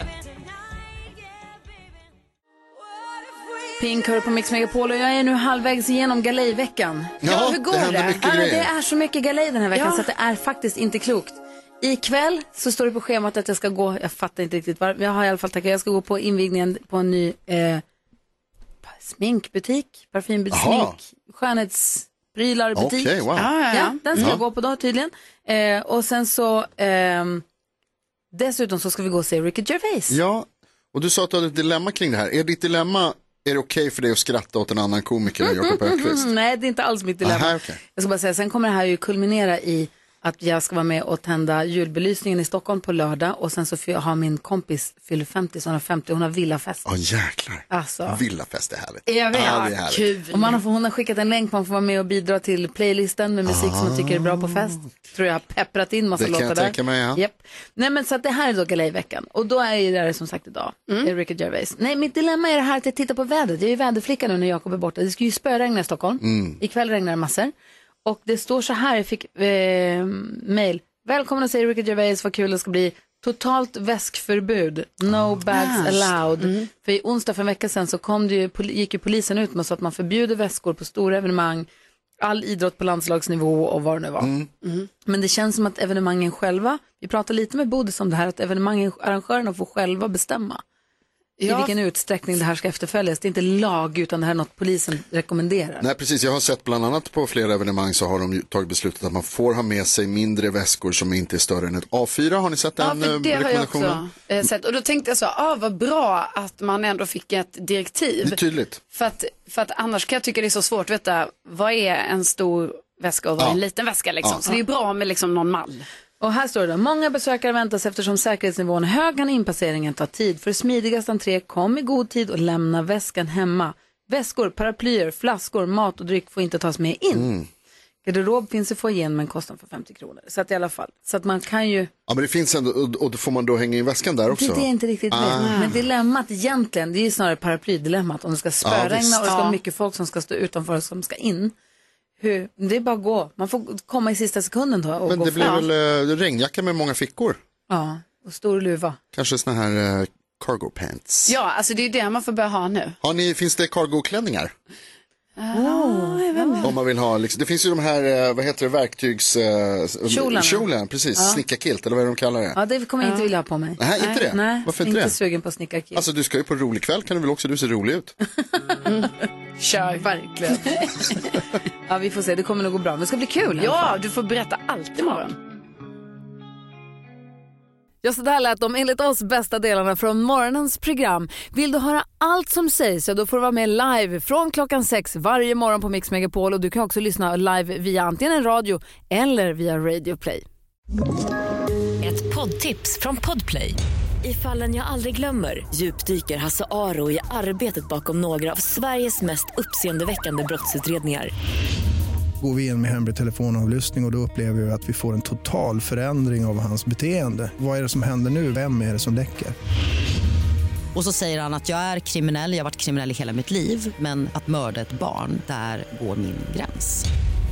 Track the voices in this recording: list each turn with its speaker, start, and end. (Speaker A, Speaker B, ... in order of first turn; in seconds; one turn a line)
Speaker A: 3.8-7.4
Speaker B: 7.2-8.7
Speaker C: 7.2-8.2
Speaker A: 8.0-17.8
Speaker C: 9.7-10.1
Speaker A: 18.8-27.4
Speaker B: 20.5-21.0
Speaker B: 22.7-23.5
Speaker C: 23.4-24.3
Speaker B: 24.1-24.4
Speaker A: 28.3-30.2
Speaker B: 30.1-36.2
Speaker A: 35.4-46.9
Speaker B: 37.2-37.8
Speaker B: 46.9-50.2
Speaker A: 47.7-48.2
Speaker A: 49.1-49.7
Speaker C: 49.2-50.6
Speaker A: 50.3-67.5
Speaker B: 53.5-54.8
Speaker B: 56.2-57.2
Speaker B: 66.2-66.6
Speaker A: 68.0-81.7
Speaker C: 75.5-76.7
Speaker A: 82.2-84.3
Speaker B: 84.2-84.5
Speaker C: 84.6-84.9
Speaker A: 85.0-90.6
Speaker C: 91.4-91.7
Speaker A: 91.4-95.8
Speaker B: 95.8-104.0
Speaker C: 102.8-108.4
Speaker B: 108.2-108.8
Speaker C: 108.9-115.9
Speaker A: 116.2-127.3
Speaker B: 127.1-127.5
Speaker A: 128.0-131.9
Speaker B: 132.1-135.8
Speaker A: 134.3-141.5
Speaker C: 135.4-135.8
Speaker B: 138.6-139.3
Speaker C: 139.2-139.6
Speaker A: 142.2-145.7
Speaker B: 145.1-147.4
Speaker A: 147.7-149.0
Speaker B: 149.1-151.3
Speaker C: 151.3-153.0
Speaker B: 153.0-154.5
Speaker C: 155.4-156.7
Speaker A: 155.5-156.7
Speaker B: 156.6-162.6
Speaker A: 160.1-161.4
Speaker A: 162.6-166.0
Speaker C: 163.0-163.3
Speaker B: 163.8-165.2
Speaker B: 165.9-168.2
Speaker C: 168.8-170.9
Speaker A: 170.4-171.2
Speaker A: 171.9-174.0
Speaker C: 173.6-175.4
Speaker A: 178.0-190.4
Speaker D: 192.0-201.3
Speaker E: 202.4-209.5
Speaker F: 210.9-217.0